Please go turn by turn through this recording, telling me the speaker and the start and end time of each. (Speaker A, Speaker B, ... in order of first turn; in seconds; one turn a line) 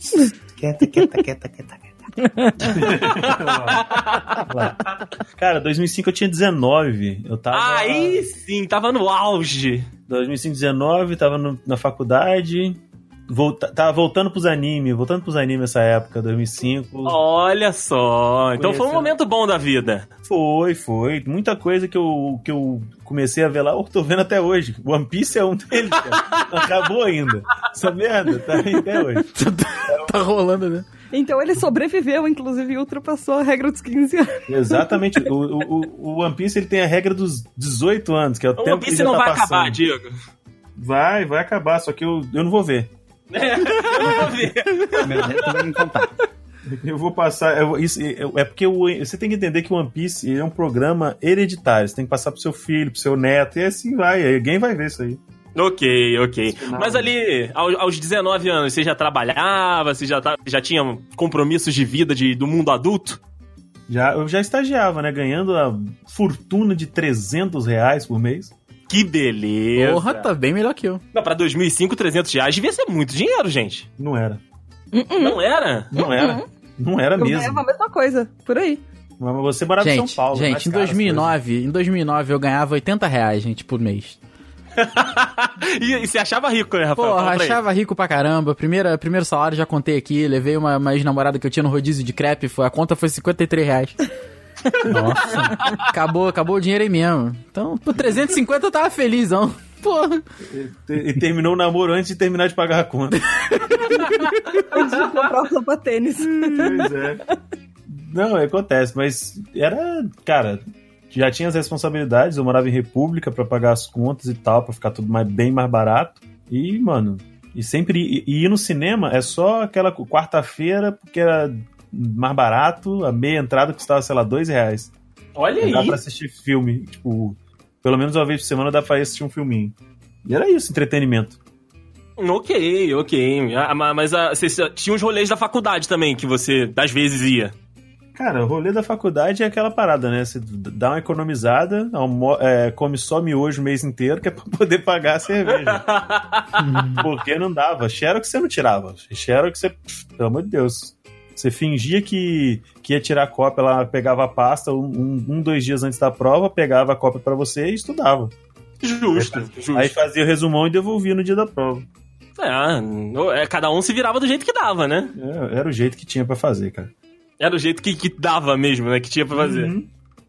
Speaker A: 0.6-2.0
Speaker B: 2.2-3.0
Speaker C: 2.6-4.0
Speaker D: 3.1-4.4
Speaker C: 4.5-8.2
Speaker D: 7.5-9.9
Speaker C: 10.1-17.2
Speaker D: 17.1-20.1
Speaker C: 18.6-19.1
Speaker C: 20.2-30.2
Speaker E: 29.2-30.9
Speaker B: 31.1-34.9
Speaker C: 34.5-39.8
Speaker D: 38.6-40.1
Speaker C: 40.8-42.9
Speaker D: 43.3-45.6
Speaker A: 45.0-46.1
Speaker C: 46.7-55.2
Speaker D: 55.5-63.2
Speaker C: 56.5-57.1
Speaker C: 63.9-68.5
Speaker D: 68.9-70.3
Speaker E: 69.7-71.0
Speaker D: 71.1-73.9
Speaker C: 74.0-74.4
Speaker B: 74.9-75.4
Speaker D: 75.2-75.9
Speaker C: 75.9-77.6
Speaker B: 75.9-76.5
Speaker B: 77.2-78.8
Speaker C: 79.2-81.3
Speaker E: 79.8-84.2
Speaker D: 84.8-87.6
Speaker E: 87.0-94.0
Speaker A: 94.8-95.6
Speaker E: 95.8-100.2
Speaker C: 100.5-104.1
Speaker E: 103.9-104.3
Speaker B: 104.7-107.3
Speaker C: 106.2-107.2
Speaker C: 107.9-124.9
Speaker D: 125.3-126.0
Speaker C: 125.6-131.4
Speaker D: 132.2-137.5
Speaker C: 138.1-145.9
Speaker D: 145.7-146.6
Speaker A: 146.6-147.1
Speaker C: 146.9-158.3
Speaker D: 158.8-160.0
Speaker C: 159.1-161.8
Speaker D: 162.4-165.1
Speaker C: 165.2-166.9
Speaker D: 167.4-169.7
Speaker C: 169.3-169.9